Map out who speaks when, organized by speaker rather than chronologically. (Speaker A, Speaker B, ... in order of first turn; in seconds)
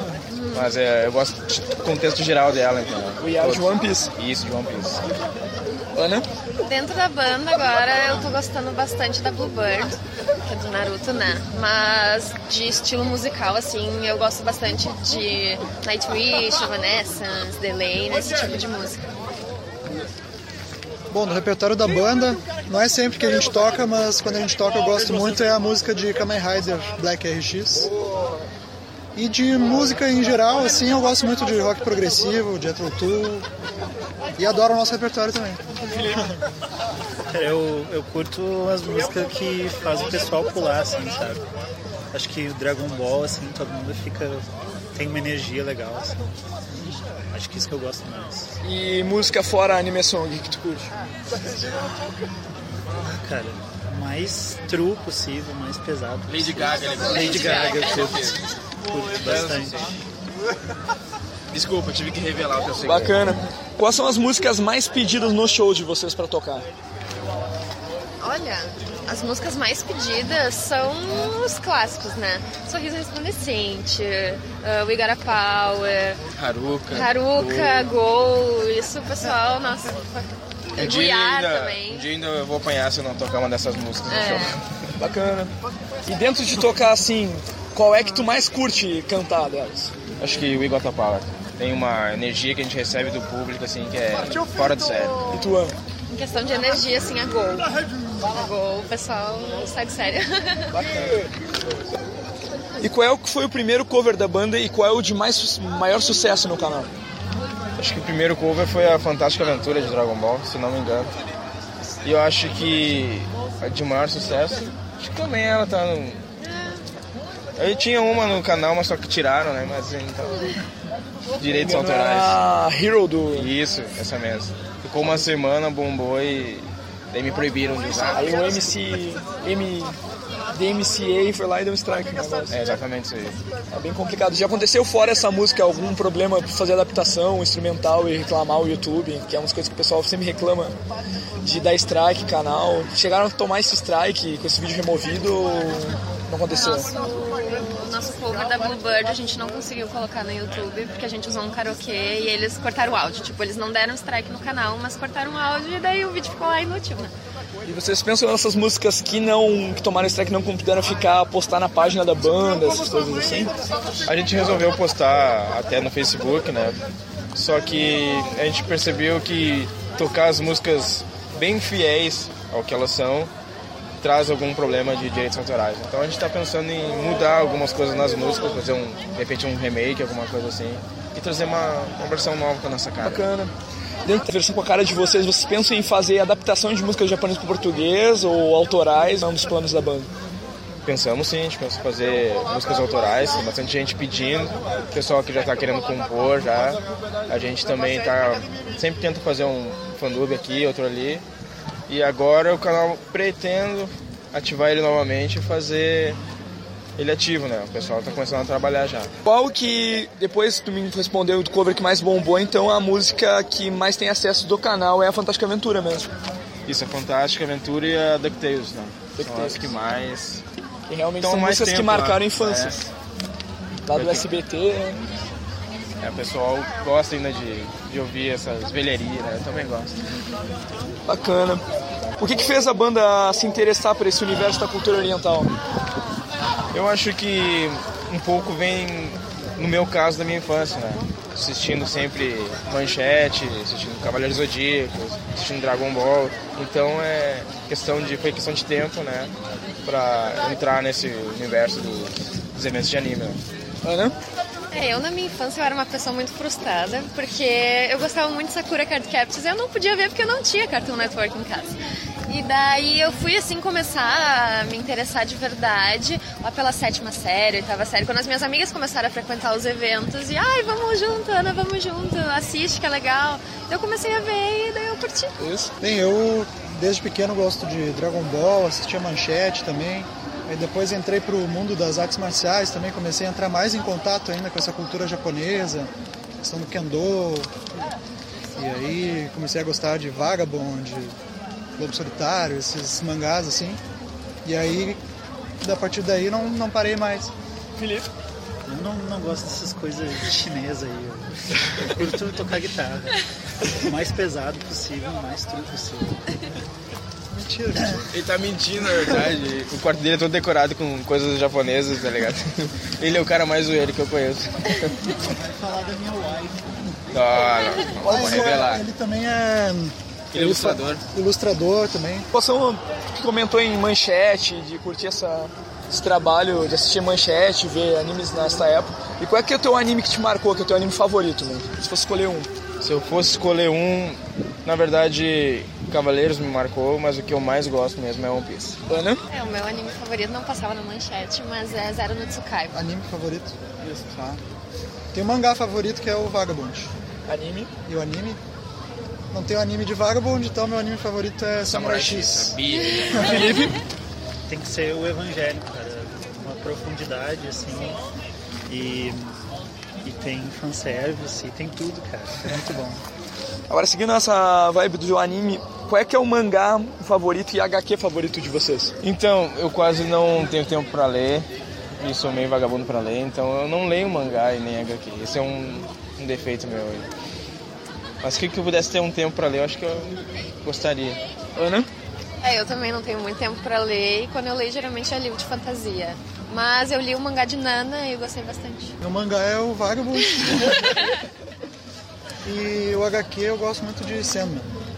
Speaker A: 0.3-0.7, 6.6-19.0, 57.1-58.1, 68.2-76.2, 76.9-82.1, 84.1-84.6, 96.1-100.7, 146.5-157.1, 254.7-275.4, 339.3-342.8, 382.4-388.9
Speaker B: 0.5-5.0, 56.3-58.4, 59.2-59.9, 61.5-63.2, 76.3-77.9, 80.8-84.7, 90.2-95.2, 107.8-111.1, 112.0-116.3, 117.6-120.6, 121.4-122.4, 123.3-128.4, 132.5-133.4, 164.1-166.8, 167.3-173.3, 174.0-183.2, 190.9-201.2, 201.9-206.2, 207.0-209.1, 216.7-220.4, 221.2-222.8, 223.9-224.3, 226.0-230.0, 236.7-249.3, 249.8-253.4, 308.1-315.1, 317.1-318.9, 320.3-321.0, 332.8-338.8, 351.6-353.6, 369.0-371.5, 372.0-377.1, 378.2-381.2
Speaker C: 3.2-4.1, 6.0-6.3, 48.6-50.9, 62.8-66.7, 85.0-85.5, 86.0-90.0, 95.3-95.8, 100.7-101.3, 102.8-106.9, 121.4-123.5, 128.1-130.0, 130.5-132.6, 133.7-140.8, 141.4-146.9, 157.7-163.6, 183.0-183.5, 184.0-190.1, 209.2-216.1, 219.2-219.7, 220.9-222.9, 223.9-225.0, 231.1-231.6, 232.2-235.5, 253.8-254.2, 275.4-275.7, 297.8-298.1, 322.3-332.5, 338.9-339.2, 347.3-347.7, 353.1-353.8, 363.7-368.9, 381.6-381.9
Speaker D: 21.1-27.9, 29.1-33.5, 34.4-36.1, 275.8-285.9, 286.4-287.6, 288.6-291.1, 291.8-293.8, 294.4-295.0, 295.6-297.3, 307.3-308.1, 318.0-322.3, 342.7-344.4, 345.1-346.9, 347.9-348.4, 349.3-352.6, 389.0-390.9, 392.4-394.8
Speaker E: 37.3-41.4, 42.1-48.5, 53.1-59.9, 298.7-306.4, 315.2-316.9, 354.5-358.1, 358.7-359.4, 360.0-363.0